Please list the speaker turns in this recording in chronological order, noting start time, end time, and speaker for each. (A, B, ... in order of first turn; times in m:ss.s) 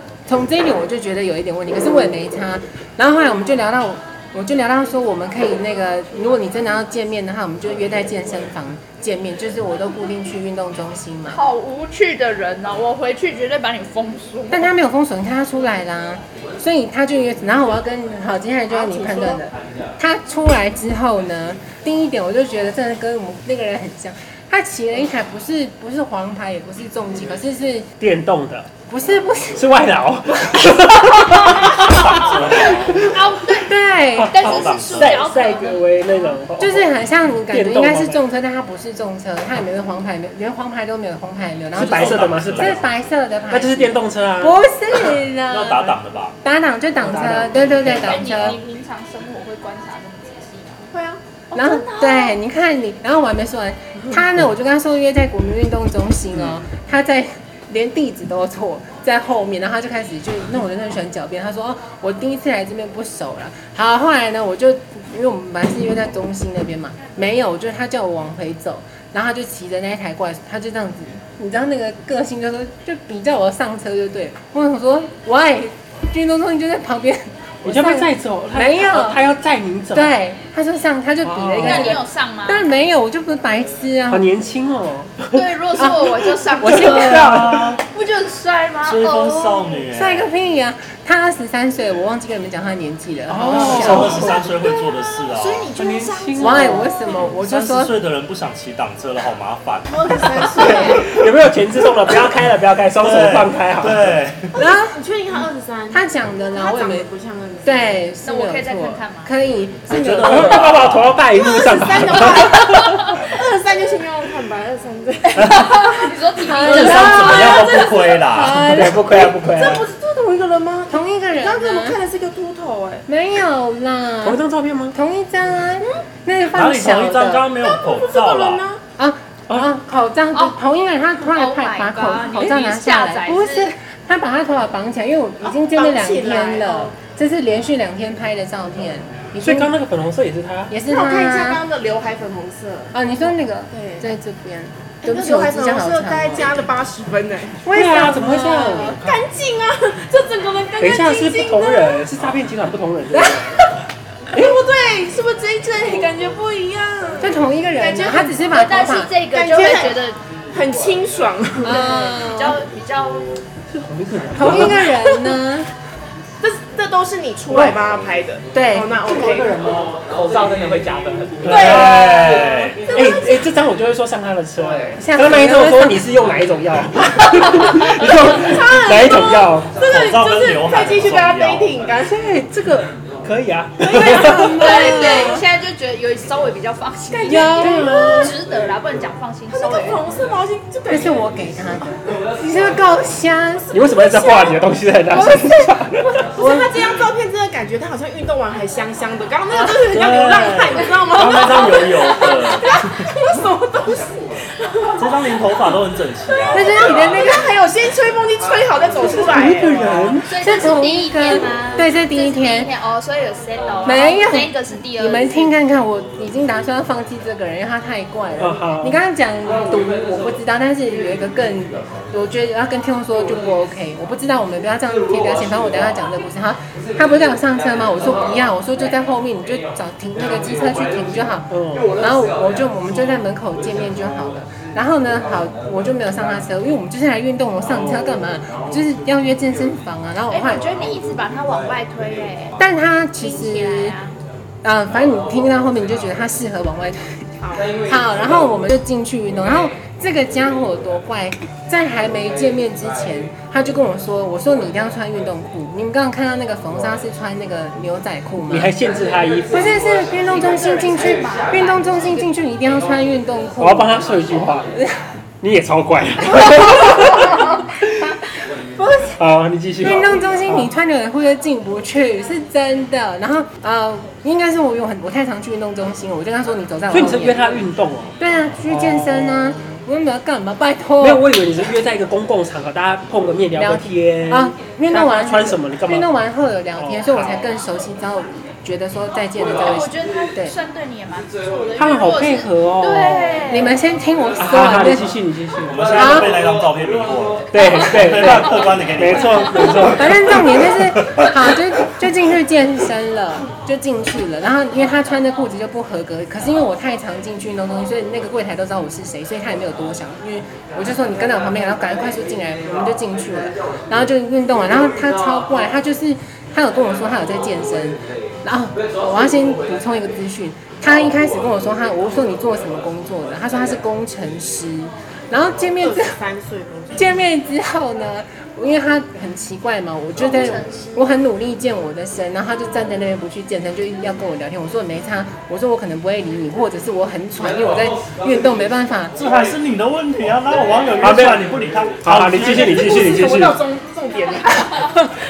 0:00.2-0:11.4 A
0:11.3-0:14.7 B
0:14.5-0:27.9 A
0:18.7-0:19.4 C
0:28.0-0:28.7 D
0:28.9-0:29.6 A
0:29.6-0:32.8 D
0:31.6-0:33.7 B
0:31.8-0:33.2 E
0:33.5-0:34.6 A
0:34.2-0:36.9 D
0:34.3-0:36.4 B
0:34.3-0:35.3 E
0:36.6-0:45.9 A
0:37.5-0:38.2 D
0:41.8-0:42.8 D
0:41.8-0:42.9 E
0:43.5-0:44.7 D
0:45.4-0:46.4 E
0:46.4-0:48.6 A
0:47.0-0:48.2 D
0:47.9-0:50.9 B
0:50.9-0:51.2 C
0:51.5-0:52.4 B
0:51.5-1:19.2 A
1:17.6-1:20.1 D
1:19.9-1:24.2 A
1:21.2-1:22.0 D
1:21.6-1:22.6 B
1:24.1-1:27.8 D
1:25.3-1:29.8 B
1:25.8-1:27.4 A
1:26.8-1:27.8 E
1:28.8-1:30.3 E
1:29.9-1:34.3 A
1:33.3-1:34.4 D
1:33.4-1:35.7 E
1:34.6-1:36.9 B
1:35.8-1:36.9 D
1:36.4-1:37.9 A
1:37.2-1:40.8 E
1:39.9-1:41.3 C
1:40.6-1:41.0 A
1:40.6-1:44.1 D
1:42.9-1:44.5 E
1:44.5-1:46.0 C
1:44.6-1:45.0 A
1:45.9-1:47.1 A
1:46.6-1:48.0 C
1:47.6-1:50.8 A
1:48.2-1:49.3 B
1:49.9-1:51.2 E
1:50.2-1:53.1 D
1:51.4-1:56.2 C
1:52.5-1:53.2 B
1:55.4-1:55.7 E
1:55.4-1:58.2 B
1:56.4-1:59.3 A
1:56.6-1:58.8 E
1:58.5-1:59.8 D
1:59.1-2:03.0 C
2:00.9-2:02.0 A
2:03.1-2:04.4 A
2:04.2-2:04.9 D
2:04.9-2:07.5 A
2:06.5-2:08.6 E
2:07.6-2:08.8 C
2:09.0-2:19.7 A
2:11.2-2:13.6 B
2:15.4-2:16.9 C
2:19.4-2:20.7 D
2:20.7-2:21.6 A
2:20.8-2:24.1 C
2:22.9-2:26.6 A
2:25.0-2:27.7 C
2:27.6-2:29.0 A
2:27.7-2:29.2 D
2:28.9-2:32.1 C
2:30.8-2:33.7 D
2:34.3-2:38.4 C
2:37.2-2:39.1 A
2:38.4-2:40.2 B
2:39.3-2:40.0 C
2:40.5-2:41.8 C
2:41.6-2:42.6 A
2:41.6-2:43.4 B
2:43.7-2:44.9 D
2:44.4-2:45.7 A
2:46.4-2:50.0 C
2:47.5-2:47.8 A
2:48.5-2:48.9 A
2:49.1-2:59.8 D
2:51.4-2:52.9 E
2:51.4-2:53.3 C
2:55.0-2:56.1 A
2:57.9-3:02.3 C
2:59.8-3:01.8 E
3:02.0-3:04.7 D
3:03.9-3:05.5 A
3:03.9-3:10.0 B
3:07.2-3:08.4 A
3:07.6-3:08.3 D
3:09.5-3:11.4 C
3:10.9-3:13.7 A
3:13.7-3:14.6 C
3:13.7-3:16.2 D
3:15.1-3:15.8 A
3:16.4-3:25.1 C
3:16.4-3:16.8 A
3:19.8-3:23.1 E
3:25.0-3:27.0 E
3:26.3-3:30.1 C
3:26.5-3:27.6 A
3:29.0-3:30.4 D
3:30.2-3:35.5 B
3:30.4-3:32.7 A
3:33.8-4:00.7 A
3:38.4-3:39.0 D
3:51.5-3:52.0 D
4:00.3-4:02.6 B
4:02.6-4:04.0 A
4:03.2-4:04.1 B
4:04.6-4:07.3 A
4:07.4-4:07.9 C
4:07.8-4:18.8 A
4:18.5-4:19.8 D
4:19.5-4:24.0 A
4:20.2-4:22.2 B
4:23.6-4:24.7 D
4:25.4-4:28.1 D
4:26.5-4:27.4 A
4:28.8-4:29.1 A
4:29.2-4:30.7 D
4:29.8-4:37.4 A
4:36.9-4:38.1 D
4:38.2-4:41.2 A
4:38.7-4:39.5 D
4:41.0-4:46.1 D
4:43.5-4:50.5 A
4:46.8-4:47.3 D
4:49.6-4:53.8 B
4:51.8-4:53.4 D
4:53.5-4:55.1 A
4:54.4-4:55.9 D
4:55.7-5:01.4 E
4:55.9-4:56.4 A
4:57.5-5:00.5 D
4:59.9-5:26.2 A
5:25.8-5:27.1 C
5:27.0-5:39.2 A
5:30.2-5:31.1 B
5:39.2-5:43.0 E
5:41.0-5:41.5 D
5:42.0-5:43.6 D
5:42.3-5:45.2 C